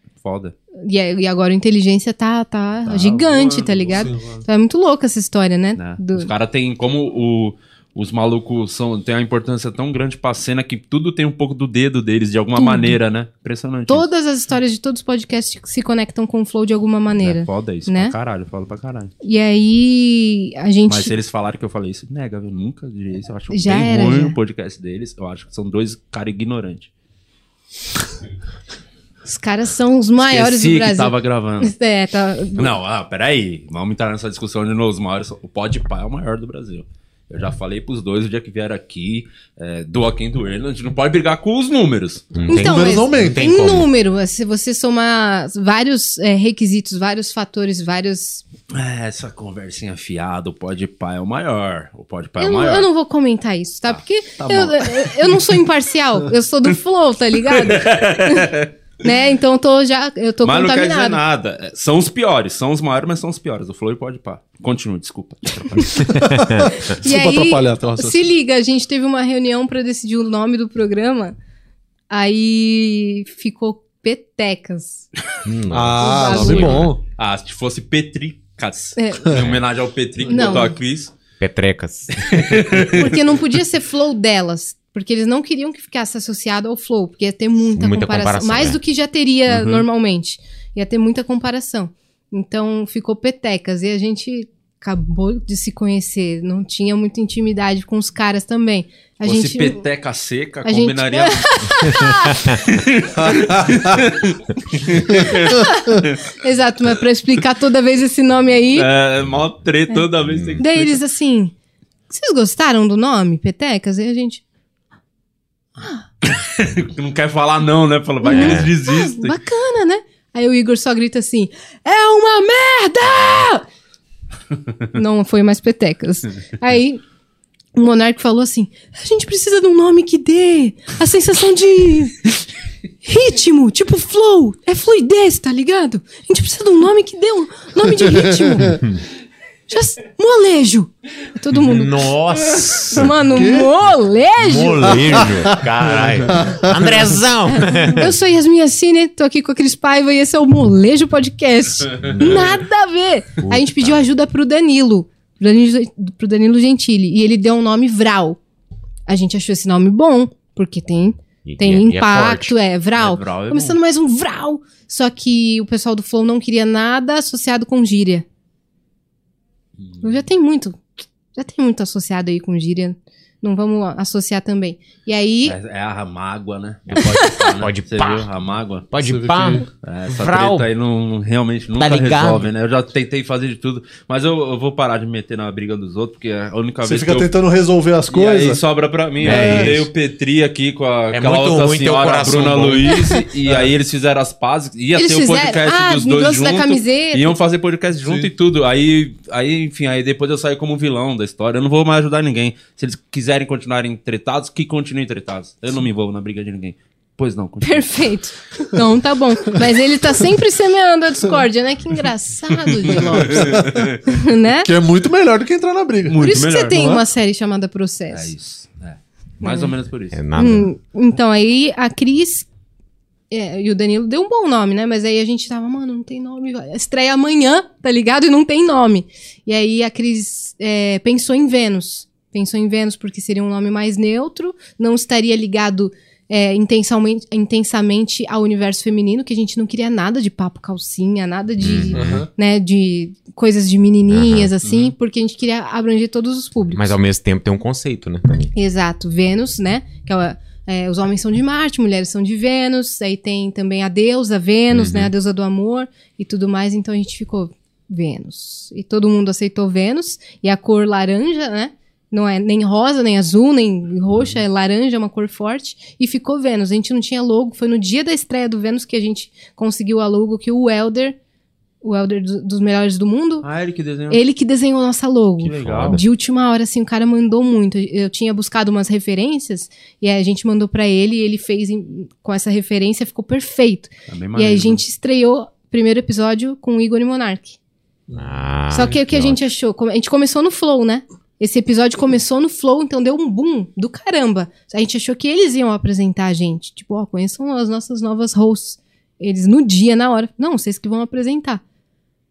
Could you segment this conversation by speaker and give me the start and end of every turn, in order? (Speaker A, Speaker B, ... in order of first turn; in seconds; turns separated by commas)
Speaker A: 0.2-0.6, Speaker B: 0.8-6.3, Speaker A: 2.9-4.1, Speaker C: 4.0-4.4, Speaker A: 5.8-14.1, Speaker B: 12.6-13.0, Speaker B: 13.9-18.1, Speaker A: 17.2-19.1, Speaker B: 19.2-21.1, Speaker A: 20.9-26.9, Speaker B: 23.5-24.4, Speaker B: 29.2-32.7, Speaker A: 30.2-31.7, Speaker A: 32.6-42.4, Speaker D: 42.3-43.9, Speaker C: 42.5-43.4, Speaker B: 42.5-48.4, Speaker A: 48.7-52.9, Speaker B: 52.4-61.2, Speaker C: 54.4-55.2, Speaker A: 57.5-58.7, Speaker A: 60.4-65.9, Speaker B: 65.8-66.0, Speaker D: 66.0-66.7, Speaker C: 66.1-68.2, Speaker B: 66.7-71.3, Speaker B: 72.1-75.1, Speaker D: 75.5-76.9, Speaker C: 75.7-77.0, Speaker B: 76.0-76.9, Speaker A: 77.2-81.1, Speaker B: 79.0-79.4, Speaker B: 80.3-80.7, Speaker C: 80.3-80.6, Speaker D: 81.4-82.6, Speaker A: 82.2-83.1, Speaker B: 82.9-99.8, Speaker D: 87.8-88.8, Speaker A: 89.5-89.9, Speaker A: 99.2-101.9, Speaker B: 100.6-102.6, Speaker A: 102.6-106.2, Speaker C: 103.3-103.7, Speaker B: 105.3-108.9, Speaker A: 108.7-111.0, Speaker D: 110.2-110.6, Speaker B: 110.6-111.5, Speaker B: 112.1-114.4, Speaker B: 115.8-116.0, Speaker A: 116.2-119.4, Speaker B: 118.2-123.7, Speaker D: 118.3-118.7, Speaker B: 124.9-127.0, Speaker B: 127.7-132.3, Speaker B: 133.0-138.8, Speaker C: 138.1-138.7, Speaker B: 139.7-145.3, Speaker D: 141.6-143.5, Speaker C: 143.3-143.7, Speaker D: 144.4-148.1, Speaker C: 144.9-146.9, Speaker B: 147.5-158.4, Speaker D: 152.0-152.6, Speaker D: 153.4-154.1, Speaker B: 159.1-168.2, Speaker D: 161.4-162.6, Speaker A: 163.0-163.8, Speaker B: 170.0-170.8, Speaker B: 171.3-175.6, Speaker A: 175.4-178.9, Speaker D: 176.9-178.3, Speaker B: 177.0-177.3, Speaker D: 178.9-180.7, Speaker C: 179.0-179.7, Speaker A: 179.8-187.3, Speaker D: 181.8-182.5, Speaker C: 186.8-188.6, Speaker A: 188.1-208.0, Speaker D: 189.2-189.9, Speaker C: 189.2-189.8, Speaker D: 191.1-193.0, Speaker C: 193.4-193.7, Speaker B: 194.9-197.4, Speaker C: 198.0-198.3, Speaker B: 207.6-214.7, Speaker A: 212.7-214.0, Speaker C: 213.0-213.9, Speaker C: 214.6-217.0, Speaker A: 216.1-216.9, Speaker B: 216.2-218.3, Speaker A: 218.1-220.2, Speaker B: 219.4-219.7, Speaker D: 220.1-220.7, Speaker B: 220.4-222.5, Speaker B: 223.3-246.9, Speaker D: 241.6-242.3, Speaker C: 241.9-242.3, Speaker D: 244.1-244.5, Speaker A: 244.6-244.9, Speaker D: 246.7-248.5, Speaker B: 248.5-271.2, Speaker D: 254.7-255.1, Speaker B: 271.8-273.5, Speaker A: 273.4-274.2, Speaker B: 274.1-287.6, Speaker A: 275.4-276.0, Speaker D: 275.6-276.0, Speaker A: 284.1-284.8, Speaker C: 288.1-288.9, Speaker D: 288.2-289.5, Speaker B: 288.7-301.6